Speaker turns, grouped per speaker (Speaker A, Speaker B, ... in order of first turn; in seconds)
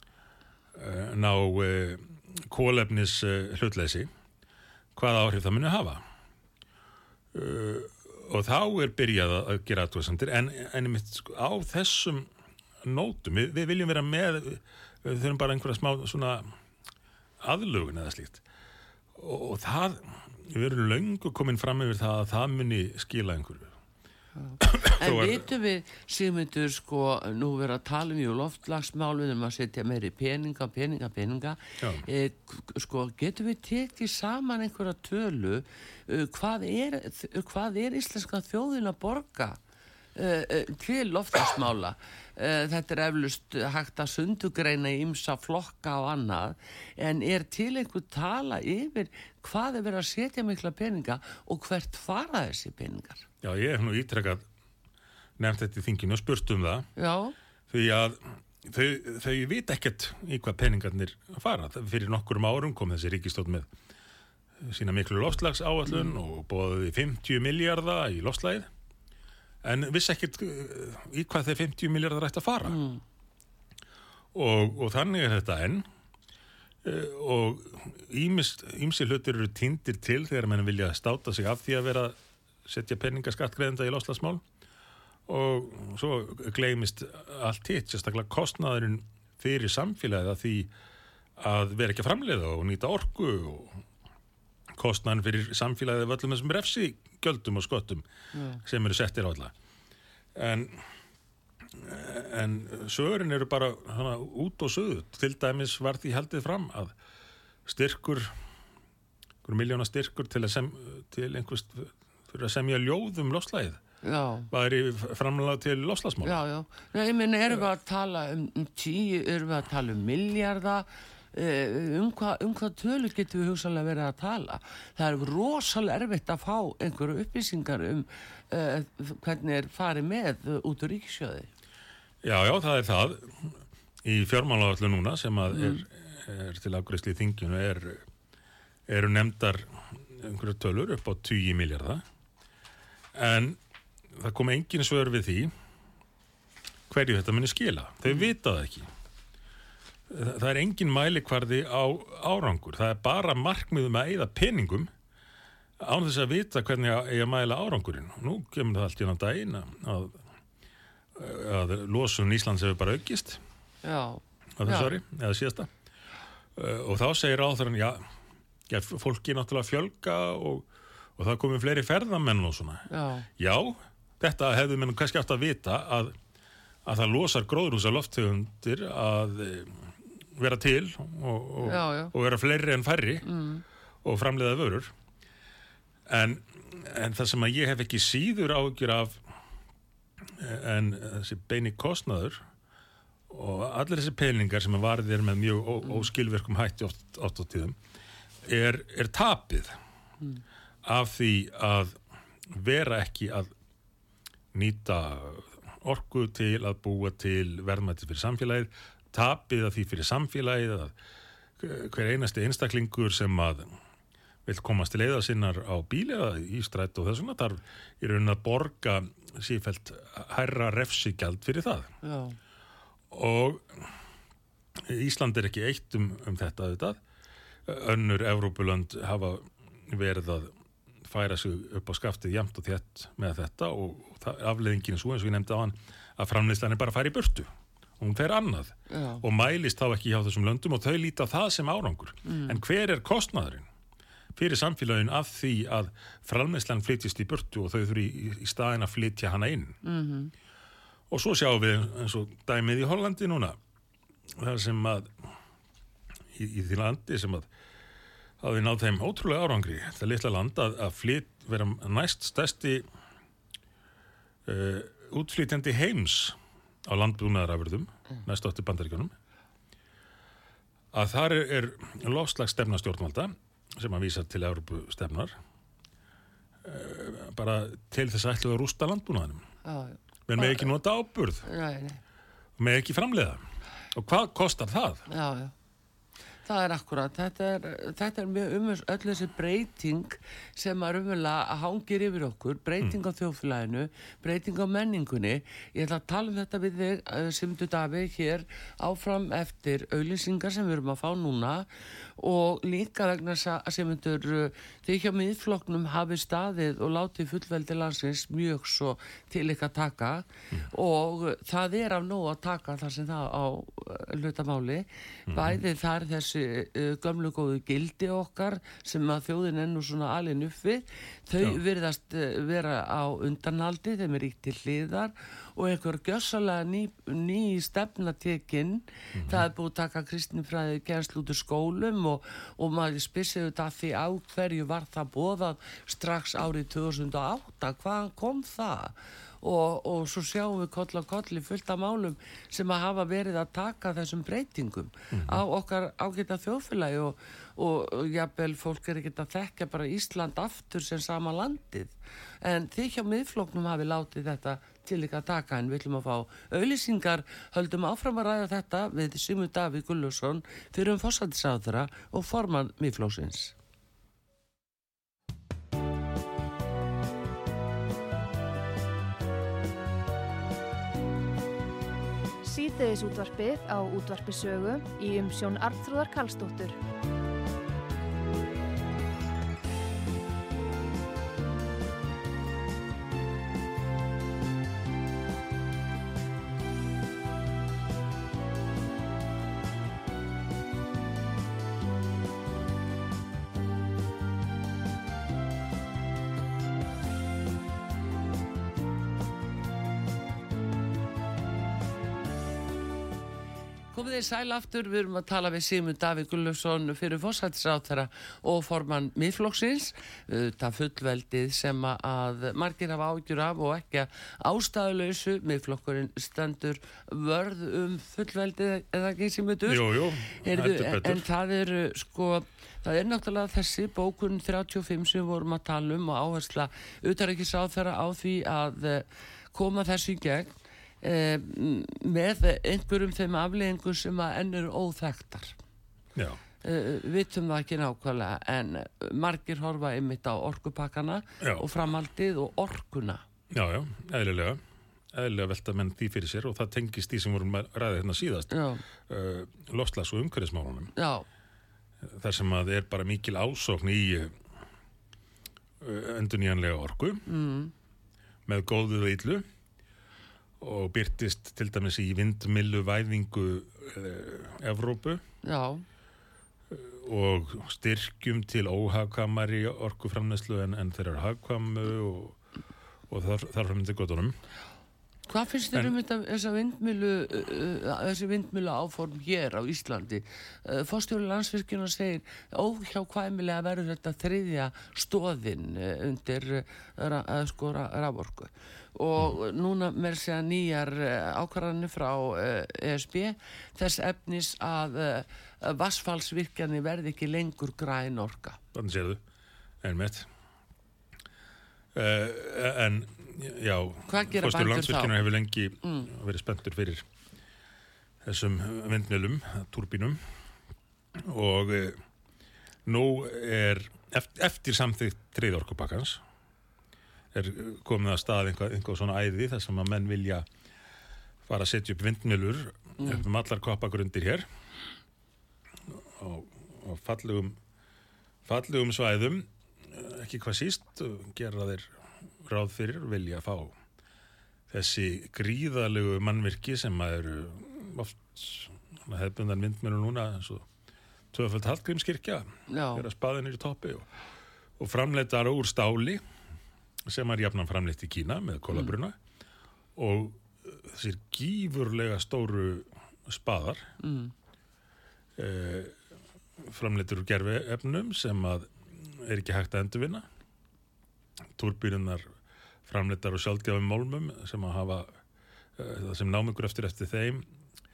Speaker A: 0.7-4.1, 5.0-6.0, 7.3-12.3, 12.8-16.5, 17.4-18.4, 19.1-23.7, 24.6-25.5, 31.8-32.1, 53.4-54.5, 55.4-56.9, 57.7-63.7, 64.6-68.7, 69.6-72.8, 74.3-75.8, 76.8-84.4, 85.3-90.7, 91.4-93.8, 94.8-98.0, 98.6-99.5, 100.3-100.9, 101.7-106.9, 107.7-108.3, 109.4-113.8, 114.5-116.4, 132.2-138.1, 138.9-142.0, 143.1-143.6, 144.1-145.5, 146.9-148.9, 150.1-154.9, 155.8-160.2, 161.2-163.4, 164.6-165.7, 166.6-168.1, 168.7-176.1, 176.8-183.3, 184.0-184.9, 186.1-189.2, 190.3-192.4, 193.3-197.8, 198.5-199.8, 200.8-202.0, 202.5-203.5, 204.5-210.9, 211.6-213.7, 214.4-221.9, 223.1-223.9, 224.8-227.0, 227.7-230.5, 231.0-237.5, 238.0-243.7, 244.4-249.8, 251.1-253.6, 254.4-255.1, 256.3-257.5, 258.4-262.9, 264.5-269.1, 270.9-275.4, 276.6-279.4, 280.3-281.5, 282.6-283.4, 283.9-285.1, 315.3-315.6, 329.1-329.5, 345.1-345.4, 419.7-421.2, 436.1-436.4, 441.4-441.7, 443.5-444.6, 445.1-448.6, 449.1-450.9, 452.0-454.4, 455.8-457.2, 458.5-459.4, 460.6-465.2, 466.7-472.4, 473.1-474.4, 498.7-499.2, 499.8-500.3, 501.9-507.1, 508.2-510.2, 511.2-512.0, 512.9-516.2, 517.3-520.5, 521.5-524.5, 525.9-527.6, 528.5-533.8, 534.7-540.7, 541.3-544.1, 544.8-546.2, 547.1-549.2, 550.0-553.9, 555.4-556.0, 556.6-560.3, 561.6-562.3, 562.9-565.2, 565.8-567.5
Speaker B: 24.4-39.6, 40.2-53.3, 57.0-57.4, 65.9-66.1, 72.7-73.0, 98.3-98.6, 114.0-114.5, 116.2-131.5, 135.5-135.8, 163.8-165.0, 172.9-173.3, 181.6-182.1, 183.2-183.6, 222.0-222.4, 238.9-239.2, 242.2-242.6, 249.8-250.3, 279.6-280.7, 281.5-282.0, 285.1-285.5, 286.4-363.6, 403.9-435.6, 436.6-443.2, 448.5-448.8, 451.0-451.3, 457.3-457.7, 465.4-465.8, 475.3-498.6, 504.1-505.2, 505.8-506.1, 523.0-523.2, 542.7-543.1, 554.0-554.3
Speaker C: 372.4-376.8